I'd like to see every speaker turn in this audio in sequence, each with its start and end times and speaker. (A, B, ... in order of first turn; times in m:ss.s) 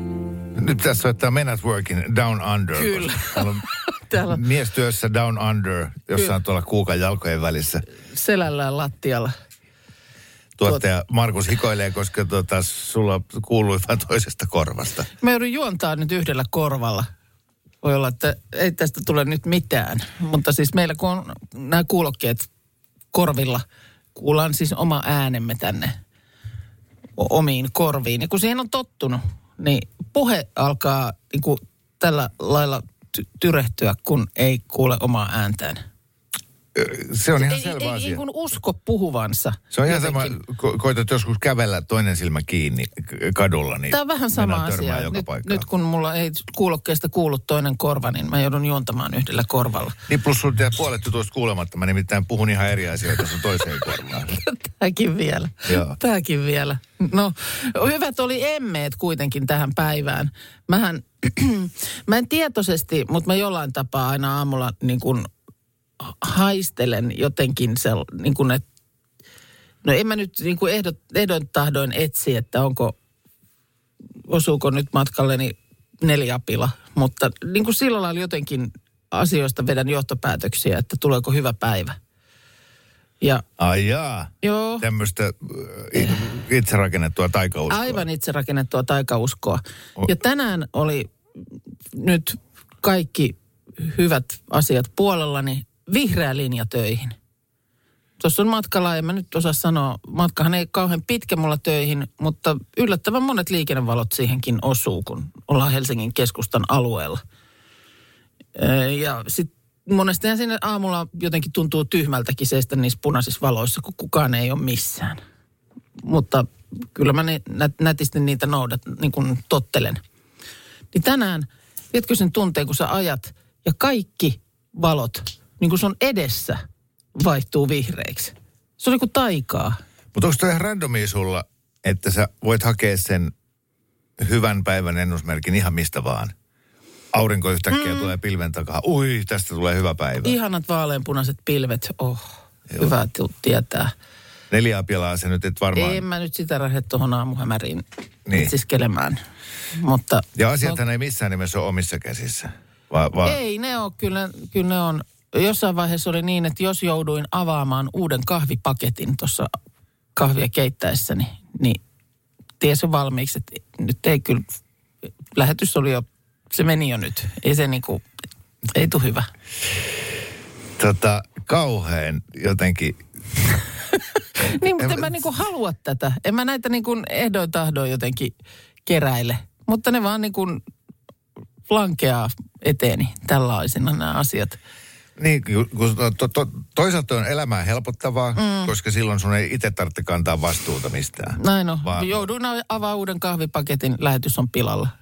0:00.5-0:03.6 A
0:02.7-0:04.4 B
0:04.3-0:07.8 A
0:08.1-0:09.3 B
0:10.6-0:15.1 A
0:15.2-0:17.1 B
0:17.8-0:22.5 B
0:23.1-0:23.6 B
0:24.2-0:26.0 B
0:27.2-0:35.8 B
0:36.8-0:38.2 A
0:37.4-0:40.4 B
0:39.7-0:45.7 A
0:43.9-0:50.0 B
0:50.1-0:54.4 A
0:54.4-1:05.3 B
0:55.7-0:56.0 A
1:06.0-1:08.6 B
1:09.8-1:13.0 B
1:14.3-1:22.0 B
1:23.6-1:28.0 A
1:24.4-1:24.9 B
1:27.7-1:31.1 B
1:31.9-1:37.2 B
1:38.2-1:47.2 B
1:48.6-1:55.2 B
1:56.0-2:00.0 B
2:00.9-2:06.6 B
2:07.2-2:09.8 B
2:10.1-2:13.3 A
2:14.2-2:16.3 A
2:17.1-2:20.4 A
2:17.7-2:18.1 B
2:20.2-2:23.9 B
2:24.5-2:26.0 A
2:25.8-2:29.2 B
2:29.7-2:30.8 B
2:30.4-2:33.4 A
2:33.2-2:39.5 B
2:40.2-2:41.8 B
2:42.6-2:44.5 B
2:45.3-2:48.0 B
2:48.7-2:49.3 B
2:50.8-2:53.0 A
2:54.4-2:58.3 B
2:54.8-2:55.2 A
2:58.9-3:00.6 B
3:01.7-3:04.6 B
3:05.2-3:12.2 A
3:08.4-3:08.7 B
3:11.4-3:14.9 B